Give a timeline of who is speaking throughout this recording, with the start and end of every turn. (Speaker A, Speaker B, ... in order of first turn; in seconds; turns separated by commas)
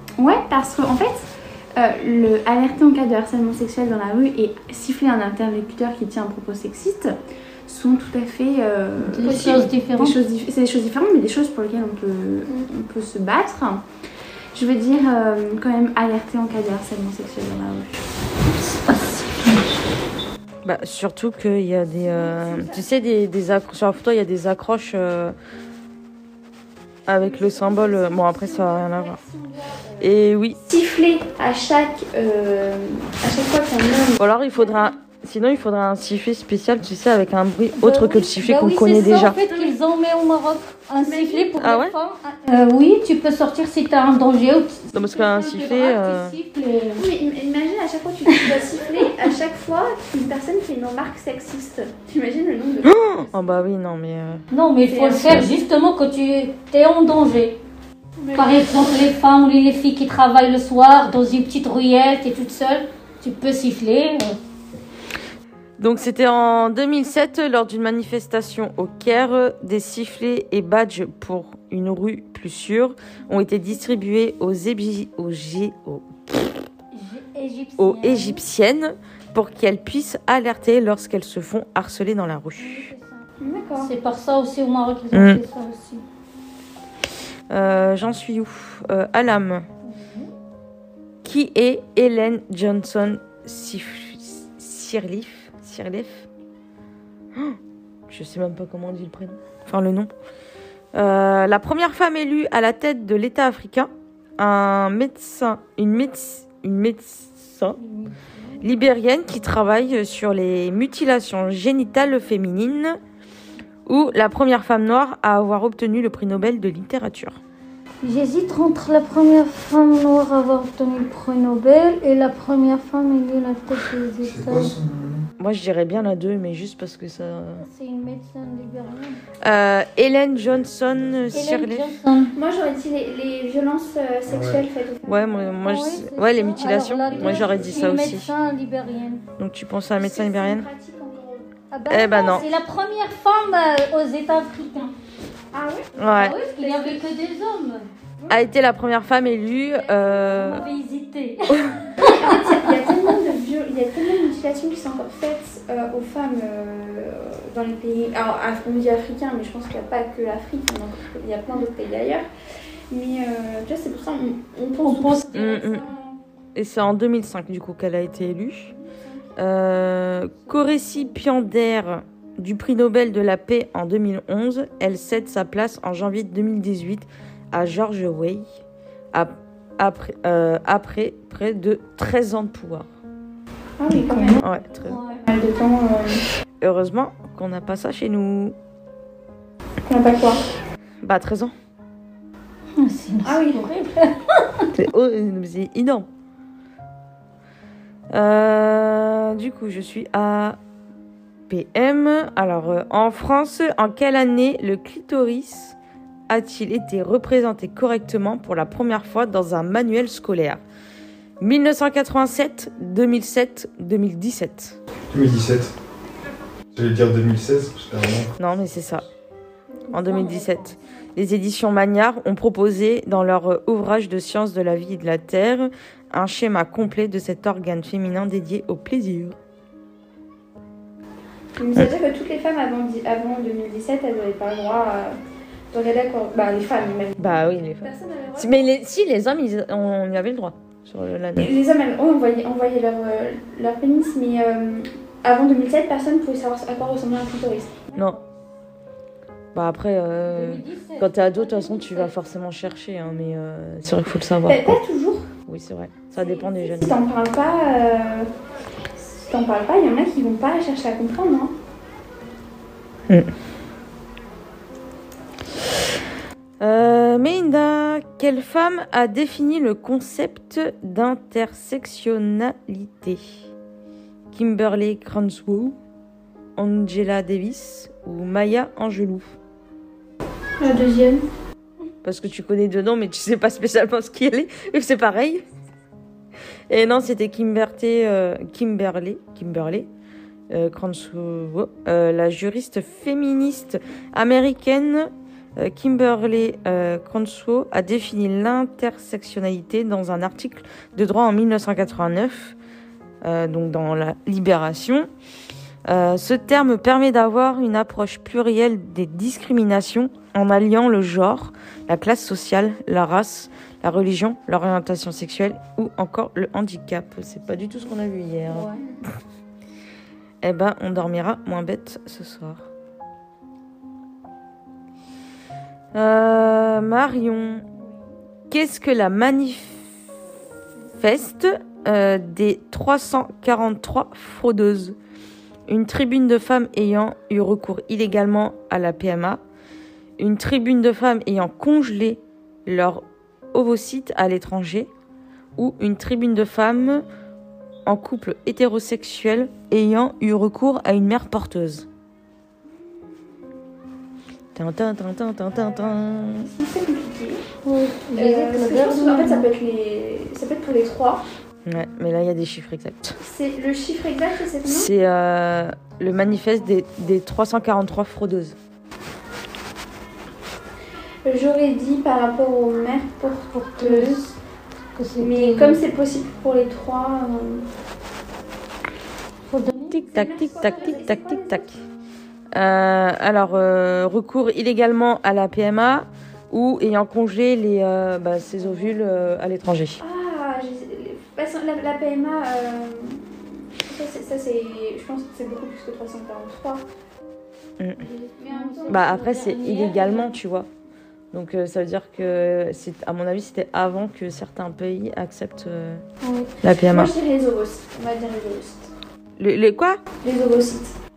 Speaker A: 0.2-13.9, Speaker B: 9.0-10.2, Speaker A: 14.5-18.1, Speaker B: 18.6-19.7, Speaker C: 20.6-25.4, Speaker A: 22.0-23.0, Speaker C: 27.1-29.2, Speaker A: 27.2-34.9, Speaker C: 30.0-30.6, Speaker C: 34.2-39.4, Speaker B: 37.8-47.1, Speaker A: 39.2-39.8, Speaker A: 41.0-41.6, Speaker C: 41.6-42.0, Speaker C: 44.9-46.4, Speaker A: 47.0-53.4, Speaker C: 52.8-54.5, Speaker B: 54.5-57.6, Speaker A: 54.9-55.5, Speaker A: 58.2-58.8, Speaker B: 58.4-64.4, Speaker C: 65.8-76.6, Speaker B: 76.9-78.4, Speaker C: 77.8-82.9, Speaker B: 82.6-83.3, Speaker A: 83.4-83.9, Speaker B: 83.8-86.0, Speaker C: 85.1-85.4, Speaker C: 87.5-89.7, Speaker B: 89.8-90.3, Speaker C: 91.2-96.3, Speaker C: 97.3-100.1, Speaker C: 100.9-107.8, Speaker B: 107.8-108.3, Speaker C: 108.6-113.0, Speaker C: 113.9-117.4, Speaker B: 118.0-124.8, Speaker D: 124.2-125.3, Speaker C: 125.4-127.7, Speaker B: 127.6-129.2, Speaker C: 129.4-132.0, Speaker B: 131.3-132.4, Speaker A: 132.3-135.8, Speaker D: 134.3-134.6, Speaker C: 135.1-138.3, Speaker B: 135.6-139.2, Speaker C: 139.4-140.7, Speaker A: 140.0-141.5, Speaker B: 141.7-144.9, Speaker C: 141.9-142.5, Speaker A: 145.5-147.1, Speaker C: 146.0-146.4, Speaker B: 146.1-147.9, Speaker A: 148.2-148.4, Speaker C: 148.3-150.6, Speaker A: 149.5-150.2, Speaker B: 150.3-153.0, Speaker A: 152.0-162.3, Speaker A: 162.9-166.2, Speaker B: 164.8-165.8, Speaker C: 165.3-165.9, Speaker C: 166.6-168.7, Speaker A: 168.7-169.3, Speaker C: 169.4-178.5, Speaker C: 179.1-182.9, Speaker A: 183.8-184.4, Speaker B: 183.9-185.2, Speaker C: 184.3-185.0, Speaker A: 185.1-186.2, Speaker C: 186.6-188.6, Speaker A: 189.9-190.4, Speaker C: 191.0-191.5, Speaker B: 192.8-194.7, Speaker A: 193.2-193.6, Speaker C: 194.8-196.1, Speaker C: 198.1-200.6, Speaker C: 201.5-205.8, Speaker C: 206.3-210.6, Speaker C: 211.4-214.8, Speaker D: 215.1-215.7, Speaker D: 216.7-218.3, Speaker C: 218.4-219.1, Speaker A: 219.7-220.8, Speaker C: 219.9-229.4, Speaker B: 220.1-220.6, Speaker A: 231.6-235.2, Speaker A: 235.7-238.7, Speaker C: 237.2-241.5, Speaker A: 241.4-247.9, Speaker C: 247.9-248.2, Speaker C: 249.5-254.8, Speaker B: 250.3-252.1, Speaker A: 254.4-255.3, Speaker C: 255.5-257.0, Speaker A: 256.2-258.3, Speaker A: 259.2-261.5, Speaker C: 266.6-273.5, Speaker C: 274.3-275.8, Speaker C: 276.6-279.4, Speaker A: 280.6-281.2, Speaker C: 282.0-285.4, Speaker C: 286.7-289.9, Speaker C: 290.5-302.6, Speaker C: 303.2-305.1, Speaker C: 305.9-318.8, Speaker C: 320.4-322.6, Speaker C: 325.9-327.7, Speaker C: 328.5-330.0, Speaker C: 330.9-335.0, Speaker C: 335.7-339.4, Speaker C: 340.2-344.9, Speaker C: 345.6-347.1, Speaker C: 347.9-351.9, Speaker C: 354.6-356.5, Speaker A: 355.7-357.4, Speaker B: 357.6-359.5, Speaker A: 358.2-361.2, Speaker C: 361.6-363.2, Speaker A: 363.2-364.9, Speaker C: 364.6-368.6, Speaker A: 371.2-374.2, Speaker B: 373.5-374.4, Speaker B: 374.9-375.8, Speaker A: 375.2-377.6, Speaker B: 379.5-380.0, Speaker C: 379.9-381.7, Speaker A: 380.0-381.7, Speaker B: 380.6-380.9, Speaker C: 382.5-390.0, Speaker A: 390.0-396.8, Speaker B: 398.0-400.3, Speaker A: 398.4-399.1, Speaker C: 398.9-400.7, Speaker C: 401.3-406.0, Speaker B: 406.2-406.5, Speaker C: 406.6-407.1, Speaker A: 406.9-408.9, Speaker C: 409.4-410.0, Speaker A: 410.2-410.9